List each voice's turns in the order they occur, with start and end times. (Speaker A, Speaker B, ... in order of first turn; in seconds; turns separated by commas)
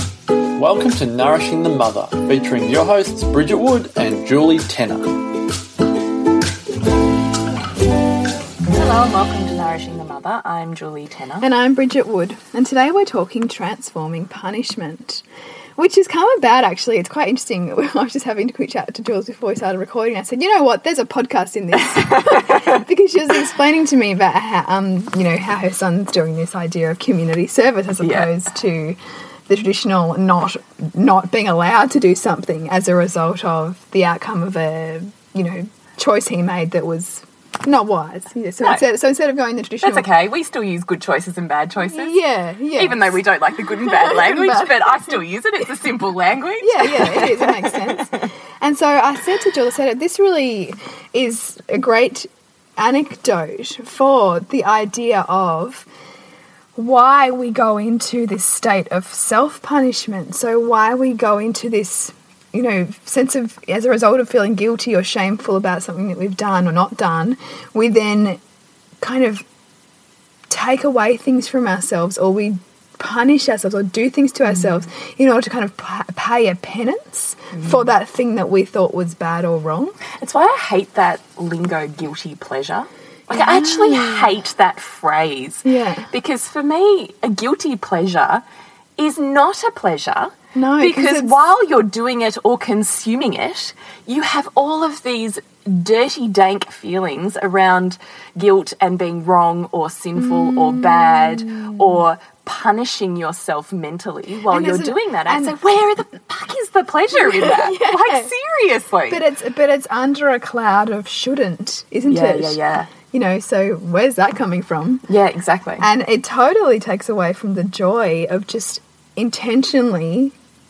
Speaker A: 0.6-5.1, Speaker B: 8.7-11.5, Speaker C: 11.4-15.2, Speaker C: 15.8-40.1, Speaker B: 21.9-22.8, Speaker B: 28.0-28.3, Speaker B: 39.8-42.2, Speaker C: 41.8-43.2, Speaker B: 42.8-48.3, Speaker C: 43.8-45.1, Speaker C: 46.6-55.9, Speaker C: 56.8-68.4, Speaker C: 69.0-69.5, Speaker C: 70.5-80.0, Speaker B: 77.5-77.8, Speaker B: 80.1-88.4, Speaker C: 83.3-84.4, Speaker C: 85.7-86.1, Speaker B: 89.0-109.2, Speaker C: 90.5-91.3, Speaker C: 100.2-102.0, Speaker C: 104.5-105.5, Speaker C: 107.1-108.3, Speaker C: 109.1-115.0, Speaker B: 112.1-112.9, Speaker B: 115.1-115.9, Speaker C: 115.8-120.3